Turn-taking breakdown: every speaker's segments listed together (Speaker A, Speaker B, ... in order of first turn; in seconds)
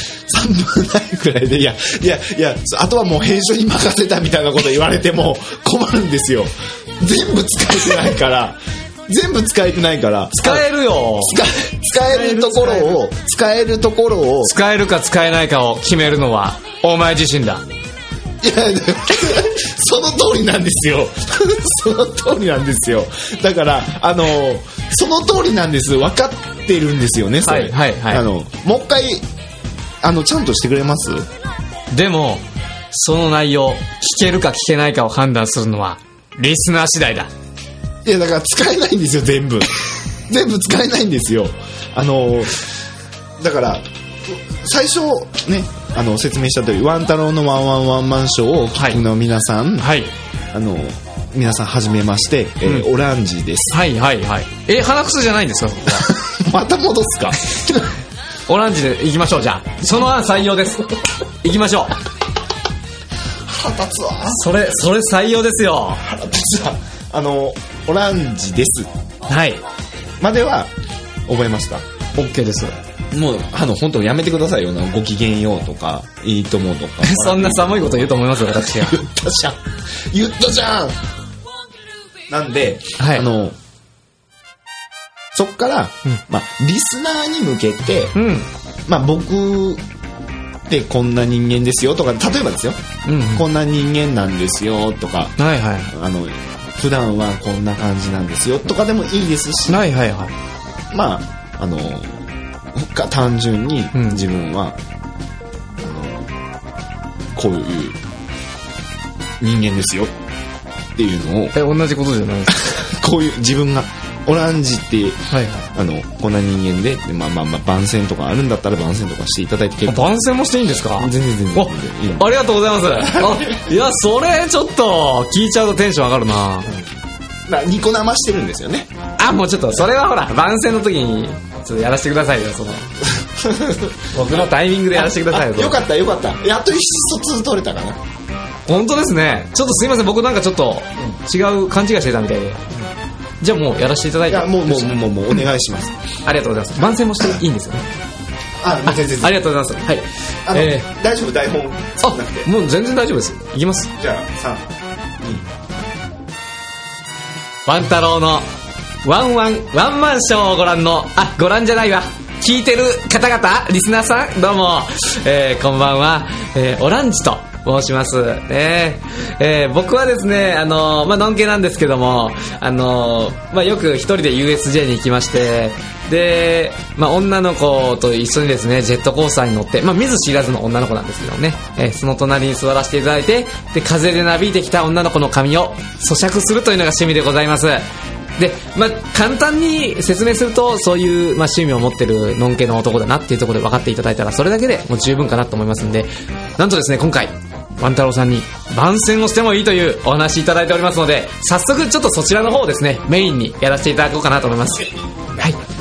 Speaker A: 0.3-10.7, 11.2-14.5, 18.4-29.2, 30.0-31.3, 38.0-42.6, 43.4-49.9, 50.5-53.8, 56.1-58.0, 63.4-64.8, 66.0-68.9, 70.2-70.7, 71.3-71.8, 73.1-81.0, 82.3-83.6, 85.3-88.1, 88.9-89.8, 90.7-95.4, 95.9-99.9, 100.9-104.8, 105.8-106.3, 107.3-108.0, 109.4-110.1, 111.0-111.5, 112.6-120.1, 121.0-123.7, 127.5-128.9, 133.2-138.0, 144.3-146.0, 148.6-149.4, 150.4-152.5, 154.0-154.7, 155.2-155.5
Speaker B: 10.3-11.4, 11.9-13.0, 14.4-17.6, 27.4-28.2, 31.9-37.3, 48.7-49.0, 49.8-50.1, 53.7-56.1, 58.5-62.0, 64.3-66.0, 69.3-69.6, 72.1-72.8, 77.0-79.0, 83.0-83.3, 88.1-88.5, 93.0-93.4, 95.4-95.9, 99.7-100.3, 103.9-104.2, 111.5-112.6, 115.3-115.7, 119.9-126.8, 129.2-132.9, 134.1-135.8, 138.7-142.7, 143.4-145.0, 146.2-147.8, 148.8-150.9, 152.0-153.9, 157.7-158.5, 159.0-187.8, 188.4-205.6